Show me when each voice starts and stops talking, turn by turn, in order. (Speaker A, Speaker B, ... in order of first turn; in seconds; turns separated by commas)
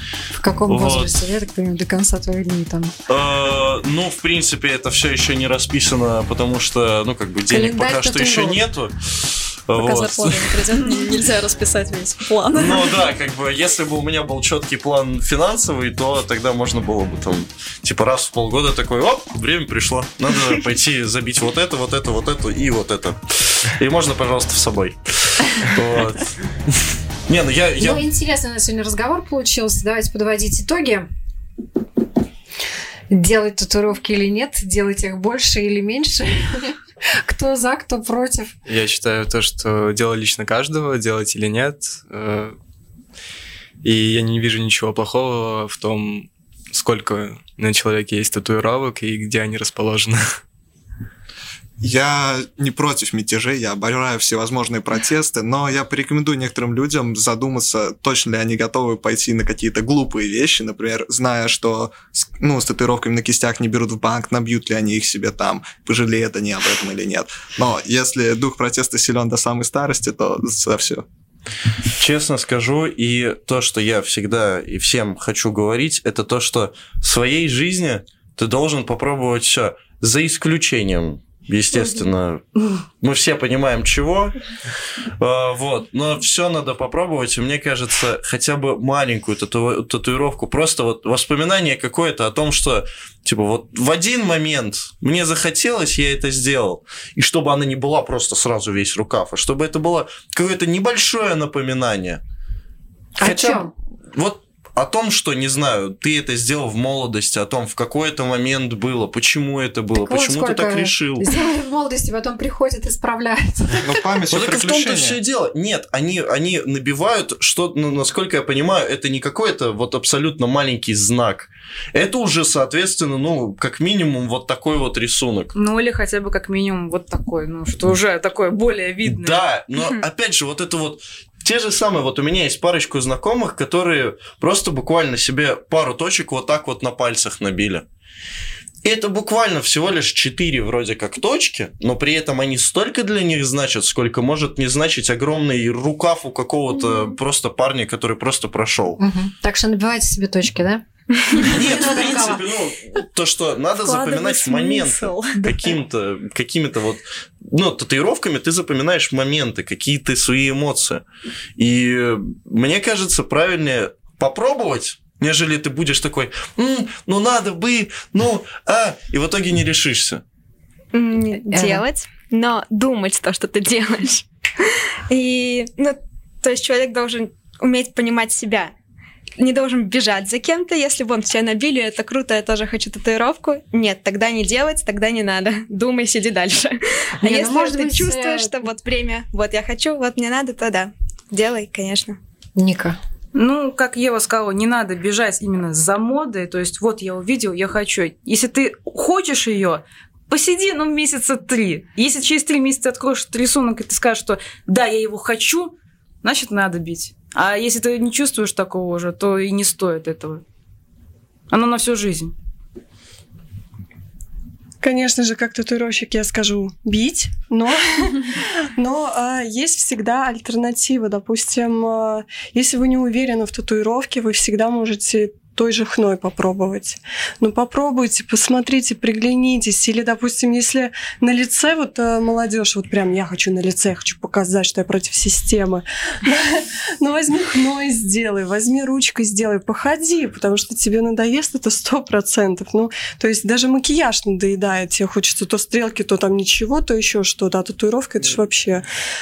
Speaker A: 0.4-2.9, Speaker B: 0.7-1.2, Speaker B: 3.1-10.8, Speaker A: 7.5-8.6, Speaker C: 9.7-13.2, Speaker B: 12.5-26.4, Speaker B: 27.3-28.0, Speaker A: 27.8-31.1, Speaker A: 33.1-38.5, Speaker D: 38.7-42.6, Speaker D: 43.8-50.4, Speaker E: 51.8-71.0, Speaker B: 72.0-82.4, Speaker B: 83.0-84.4, Speaker B: 85.2-102.2, Speaker A: 103.2-103.7, Speaker B: 103.2-111.3, Speaker A: 110.0-113.8, Speaker E: 113.8-115.2, Speaker B: 114.3-125.5, Speaker F: 125.5-129.4, Speaker B: 129.1-137.9, Speaker B: 138.8-149.0, Speaker A: 149.0-152.4, Speaker B: 151.4-161.0, Speaker C: 153.8-155.8, Speaker B: 161.6-170.2, Speaker G: 170.9-174.2, Speaker A: 171.3-171.8, Speaker G: 175.1-178.7, Speaker G: 179.4-192.2, Speaker A: 187.2-188.5, Speaker A: 192.6-193.0, Speaker F: 193.3-210.4, Speaker F: 211.5-212.3, Speaker H: 214.8-248.8